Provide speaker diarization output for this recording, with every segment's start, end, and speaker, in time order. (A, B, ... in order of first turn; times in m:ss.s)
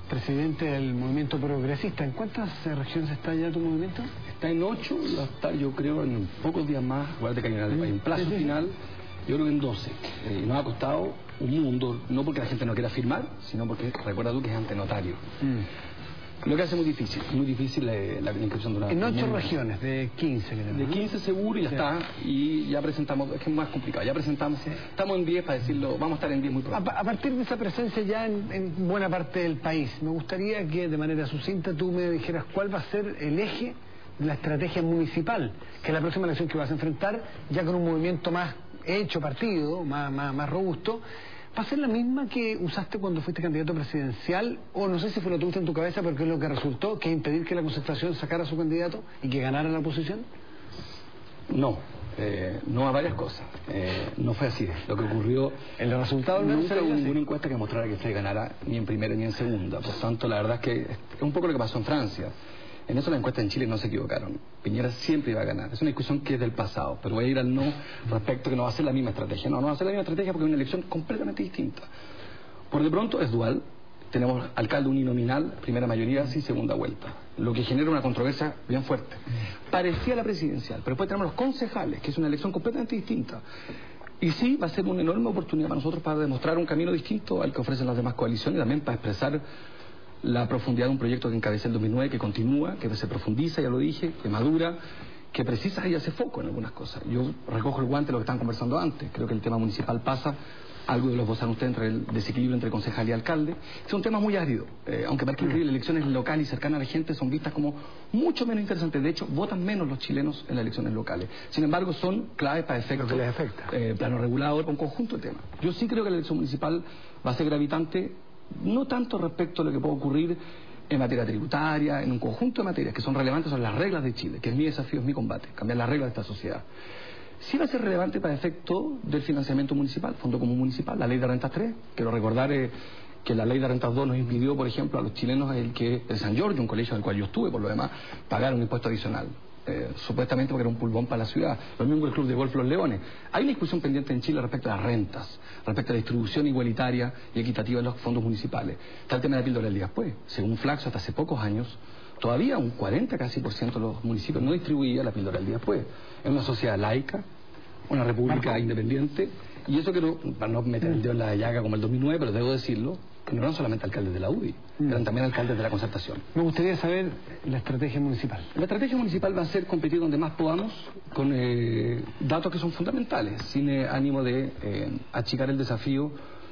0:00.1-0:04.0 A
0:04.3-0:08.7 B
0:09.2-0:15.6 B
0:16.4-0:19.6 B
0:18.9-0:21.0 A
0:20.7-0:26.9 B
0:26.8-0:41.0 A
0:41.5-0:50.2 A
0:51.5-0:55.6 B
0:55.8-0:57.2 A
0:56.3-1:02.3 B
1:02.9-1:11.8 B
1:12.7-1:23.4 B
1:24.2-1:29.4 B
1:30.2-1:34.8 B
1:35.3-1:40.3 B
1:40.9-2:00.4 B
2:00.9-2:06.6 B
2:07.4-2:37.2 B
2:37.9-2:46.2 B
2:46.4-2:48.4 A
2:48.5-2:56.1 B